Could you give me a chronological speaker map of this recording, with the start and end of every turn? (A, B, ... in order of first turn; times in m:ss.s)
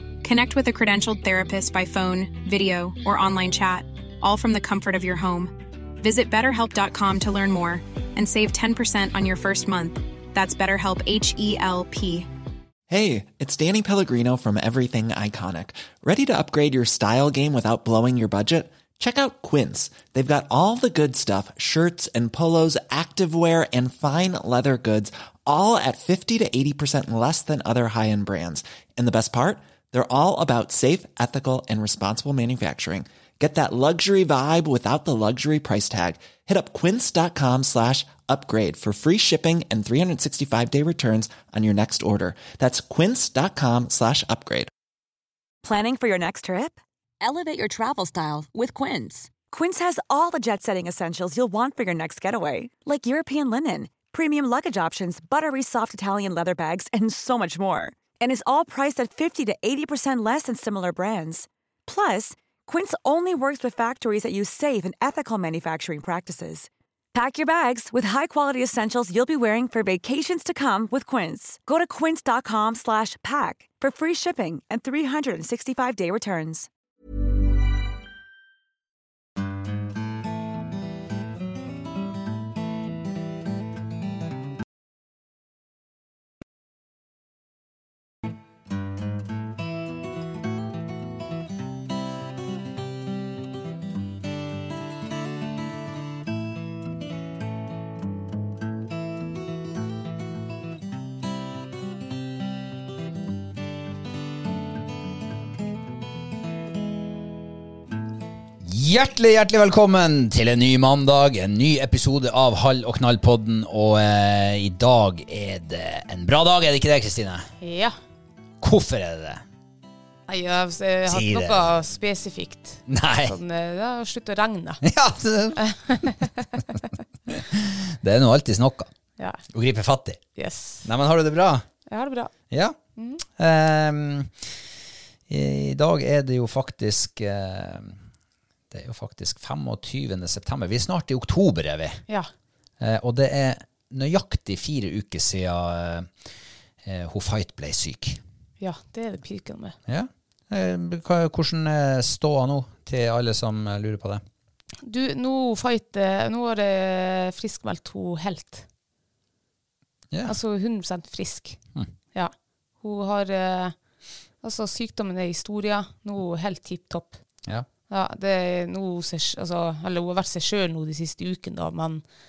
0:00.2-0:12.3 A
0:12.9-0:44.7 B
0:45.6-1:16.7 C
1:48.6-1:57.5 D
1:57.6-1:58.0 E
1:58.6-1:59.4 D
2:00.3-2:04.8 E
2:01.1-2:01.7 D
2:02.9-2:03.4 D
2:04.8-2:06.2 D
2:05.6-2:06.5 E
2:07.3-2:08.9 D
2:09.5-2:10.2 D
2:10.4-2:10.9 E
2:10.8-2:11.6 D
2:11.9-2:12.3 E
2:12.5-2:12.8 D
2:13.0-2:13.2 E
2:13.4-2:14.5 D
2:15.3-2:18.0 D
2:18.7-2:22.0 D
2:22.8-2:26.1 D
2:26.8-2:28.2 D
2:28.6-2:29.8 E
2:29.9-2:34.2 D
2:34.8-2:38.7 E
2:40.1-2:40.4 D
2:40.3-2:41.6 E
2:42.2-2:43.8 E
2:44.4-2:47.2 E
2:47.9-2:52.0 E